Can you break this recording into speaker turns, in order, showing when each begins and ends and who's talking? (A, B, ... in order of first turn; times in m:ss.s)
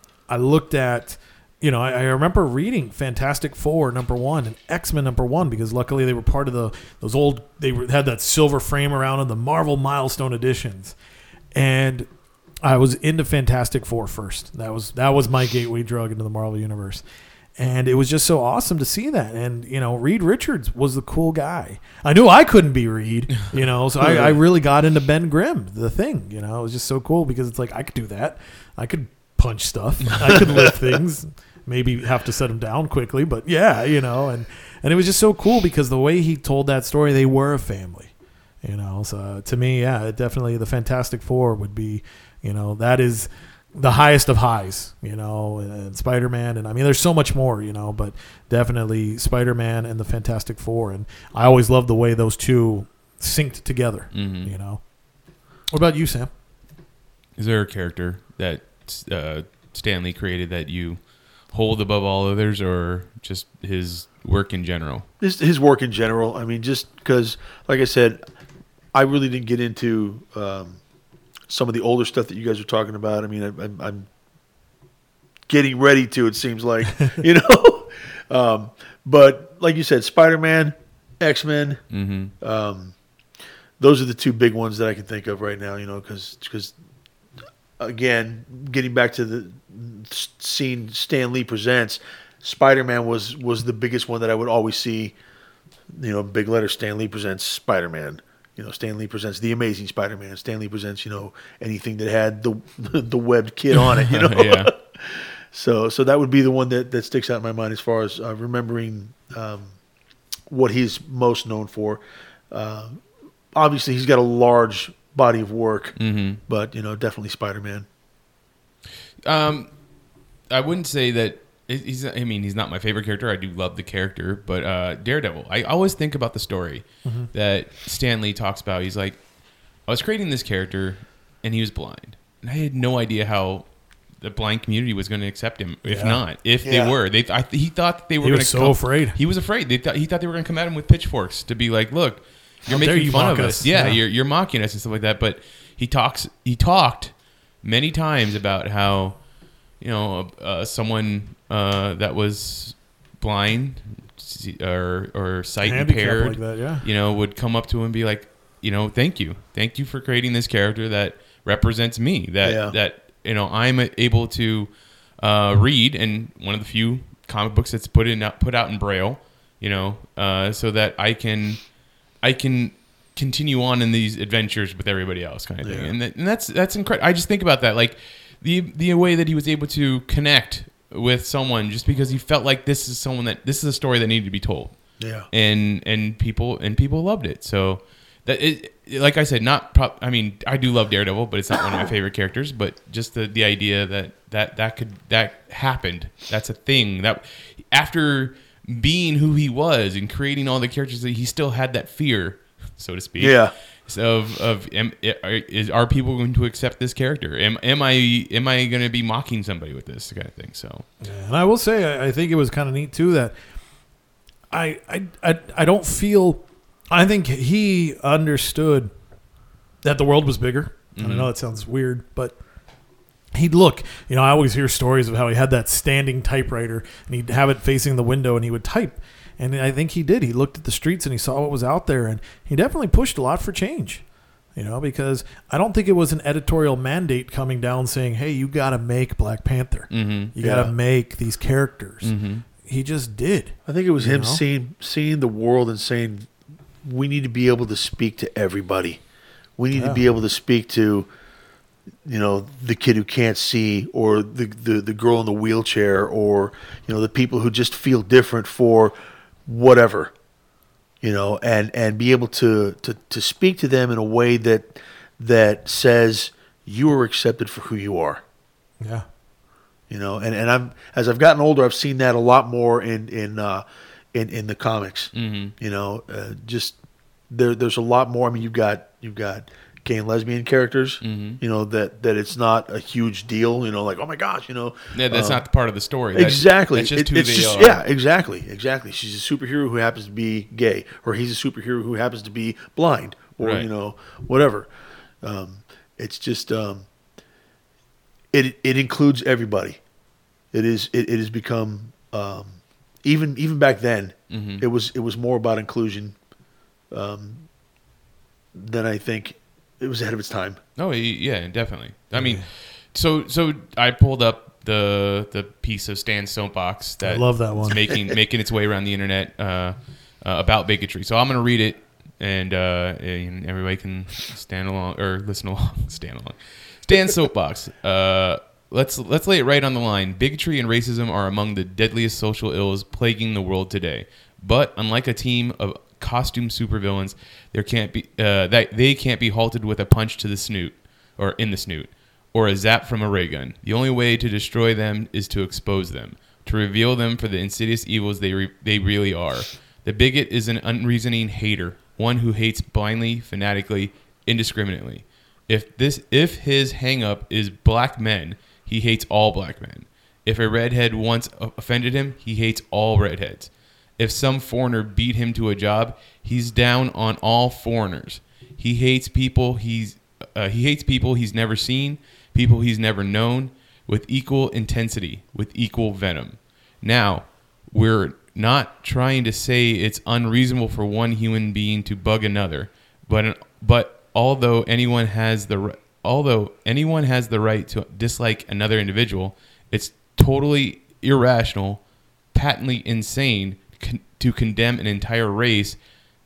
0:00.3-0:11.0 A
0:11.5-0:12.1 A
0:12.6-0:17.0 A
0:17.6-0:54.9 A
0:24.0-0:24.4 B
0:54.1-0:54.5 C
0:55.7-0:56.3 A
0:57.4-1:05.0 C
1:05.2-1:08.2 B
1:08.9-1:10.8 B
1:11.5-1:14.1 B
1:15.5-1:21.8 B
1:21.9-1:22.3 C
1:22.4-1:23.0 B
1:23.8-1:26.7 B
1:27.8-1:35.1 B
1:35.9-1:49.8 B
1:44.1-1:44.7 C
1:50.5-1:53.0 B
1:53.5-1:57.8 B
1:56.0-1:56.4 C
1:59.2-1:59.7 C
2:00.5-2:09.2 C
2:07.0-2:07.3 A
2:09.8-3:30.8 C
2:15.8-2:16.2 A
2:16.6-2:16.9 B
2:18.2-2:19.2 A
2:22.7-2:24.0 A
2:35.6-2:36.8 A
2:42.4-2:42.7 B
2:55.6-2:55.9 B
3:05.0-3:05.3 B
3:23.2-3:23.5 B
3:31.0-3:33.3 A
3:34.5-3:38.9 A
3:39.8-3:42.4 A
3:41.0-3:41.3 C
3:43.3-3:54.0 A
3:54.5-4:04.4 A
3:59.9-4:00.3 C
4:00.4-4:00.7 B
4:02.0-4:02.4 C
4:03.6-4:06.3 B
4:06.8-4:09.0 B
4:09.6-4:11.1 B
4:09.7-4:10.0 A
4:12.0-4:18.9 B
4:19.4-4:20.1 B
4:21.0-4:28.2 B
4:28.8-4:29.0 A
4:29.9-4:36.8 B
4:35.1-4:35.5 C
4:37.3-4:45.4 B
4:41.0-4:41.4 C
4:44.9-4:47.8 C
4:46.1-4:54.7 B
4:53.4-4:53.7 C
4:55.2-4:56.8 B
4:58.3-4:59.8 B
5:00.5-5:06.2 B
5:04.3-5:04.6 C
5:06.9-5:07.4 B
5:08.5-5:10.6 B
5:10.8-6:35.8 C
5:12.1-5:12.4 A
5:17.0-5:17.8 A